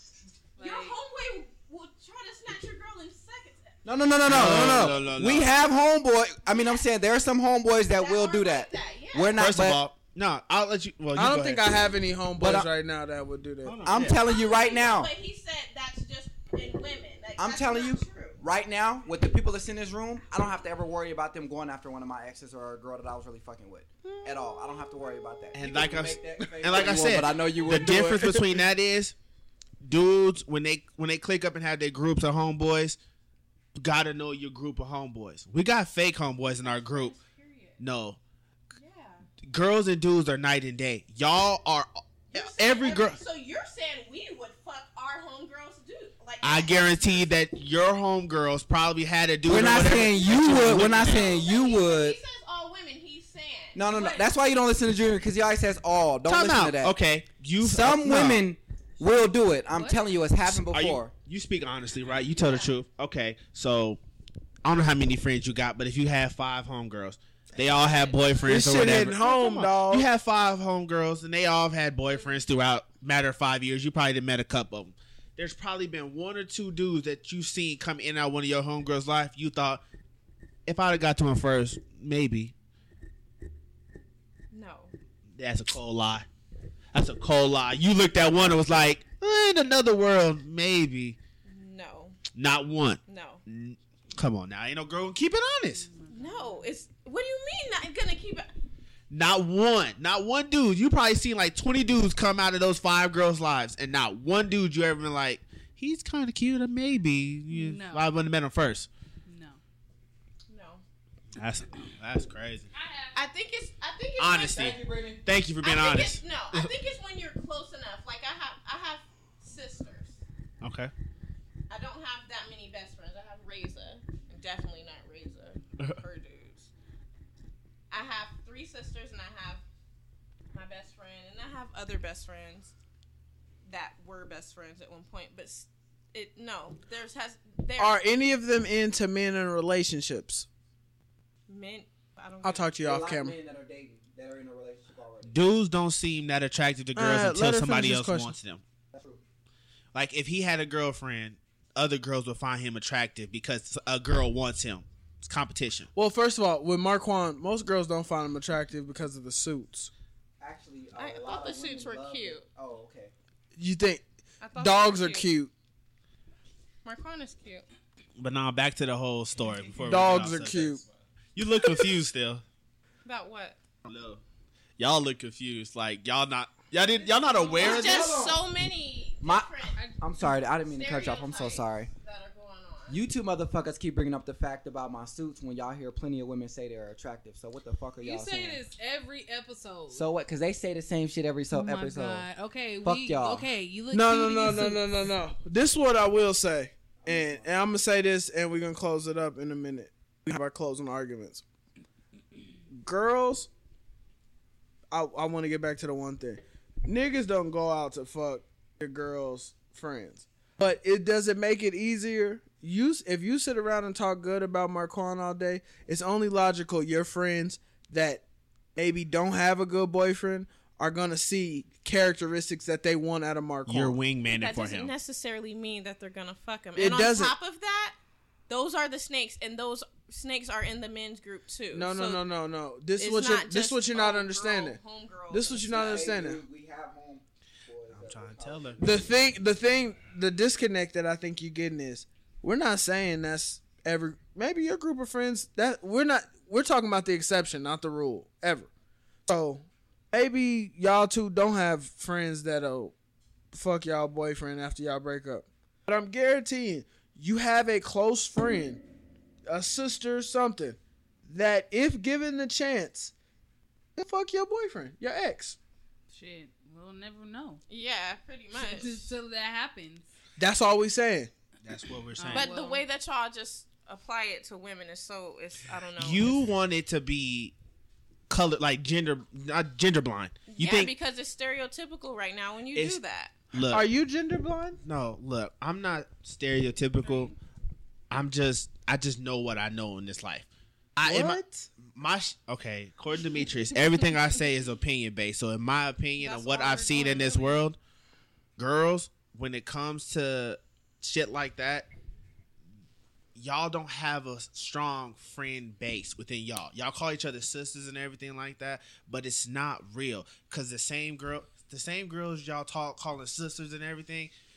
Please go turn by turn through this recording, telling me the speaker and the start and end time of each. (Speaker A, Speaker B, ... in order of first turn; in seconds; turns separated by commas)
Speaker A: 0.6-0.9, Speaker B: 0.6-4.5, Speaker C: 3.8-9.8, Speaker D: 4.2-5.5, Speaker B: 6.5-6.8, Speaker B: 8.0-9.4, Speaker D: 9.4-11.6, Speaker E: 11.2-13.8, Speaker C: 12.4-12.7, Speaker D: 13.6-14.2, Speaker C: 13.8-15.1, Speaker B: 14.2-18.4, Speaker C: 17.4-28.4, Speaker B: 24.1-24.4, Speaker D: 25.6-29.1, Speaker D: 29.8-33.0, Speaker D: 33.8-37.2, Speaker A: 36.6-37.8, Speaker D: 37.8-38.2, Speaker B: 38.8-39.3, Speaker D: 39.4-43.2, Speaker B: 42.3-47.3, Speaker D: 46.4-51.4, Speaker C: 49.5-52.2, Speaker B: 50.5-53.8, Speaker C: 53.8-57.0, Speaker A: 53.9-54.3, Speaker D: 56.3-58.5, Speaker C: 57.6-61.1, Speaker A: 59.8-60.0, Speaker D: 60.5-64.0, Speaker B: 62.2-62.8, Speaker D: 64.6-79.8, Speaker B: 67.6-68.5, Speaker E: 68.5-70.0, Speaker D: 80.7-82.5, Speaker B: 84.5-84.9, Speaker D: 85.4-86.3, Speaker D: 86.9-91.2, Speaker B: 91.5-92.2, Speaker D: 92.3-95.9, Speaker B: 93.1-93.4, Speaker A: 95.8-96.7, Speaker B: 96.1-98.5, Speaker D: 99.1-108.9, Speaker A: 107.5-108.1, Speaker A: 109.3-109.6, Speaker B: 110.5-110.8, Speaker D: 111.4-112.7, Speaker A: 112.7-113.2, Speaker B: 113.1-114.7, Speaker D: 114.2-116.7, Speaker C: 114.4-115.2, Speaker B: 115.6-120.2, Speaker D: 120.6-120.9, Speaker B: 121.7-126.7, Speaker B: 127.9-129.6, Speaker B: 130.5-132.7, Speaker B: 133.7-138.0, Speaker E: 137.8-140.5, Speaker B: 141.5-142.7, Speaker E: 142.4-143.3, Speaker C: 142.8-145.4, Speaker D: 145.3-148.6, Speaker E: 147.0-148.3, Speaker C: 148.9-149.2, Speaker D: 149.9-155.9, Speaker E: 155.9-159.9, Speaker C: 160.4-163.1, Speaker B: 161.0-162.4, Speaker E: 163.6-164.0, Speaker B: 164.4-165.3, Speaker E: 164.6-165.5, Speaker B: 166.8-167.7, Speaker D: 168.2-170.8, Speaker E: 169.8-170.8, Speaker D: 171.3-172.4, Speaker B: 173.1-173.6, Speaker D: 173.8-174.2, Speaker D: 174.8-178.2, Speaker A: 177.2-177.5, Speaker C: 177.6-178.4, Speaker B: 177.6-179.8, Speaker C: 179.2-181.9, Speaker B: 180.6-183.0, Speaker C: 182.9-188.6, Speaker A: 188.0-190.1, Speaker C: 189.9-192.3, Speaker A: 191.5-194.9, Speaker C: 192.8-193.5, Speaker E: 193.9-201.4, Speaker C: 197.0-197.7, Speaker E: 202.7-203.5, Speaker E: 204.9-218.2, Speaker E: 218.8-224.0, Speaker D: 223.7-224.9, Speaker B: 224.3-228.0, Speaker E: 226.8-227.3, Speaker B: 228.5-232.2, Speaker E: 231.7-234.8, Speaker B: 233.0-236.1, Speaker E: 235.3-236.4, Speaker C: 235.7-239.0, Speaker D: 237.9-238.9, Speaker E: 238.8-248.7, Speaker E: 249.3-252.9, Speaker E: 253.5-258.8, Speaker E: 259.5-260.8, Speaker E: 261.3-263.1, Speaker E: 263.9-265.6, Speaker A: 266.1-267.6, Speaker B: 267.7-269.1, Speaker A: 268.6-270.1, Speaker E: 270.4-271.3, Speaker D: 271.6-272.5, Speaker A: 272.2-272.8, Speaker B: 272.3-276.4, Speaker D: 276.0-277.5, Speaker D: 278.3-280.9, Speaker B: 280.5-283.3, Speaker D: 283.5-283.9, Speaker E: 283.7-284.8, Speaker D: 284.8-287.3, Speaker B: 287.0-287.3, Speaker D: 288.1-297.8, Speaker E: 291.1-291.7, Speaker B: 293.8-294.1, Speaker B: 296.2-297.6, Speaker D: 298.6-301.9, Speaker D: 303.4-314.3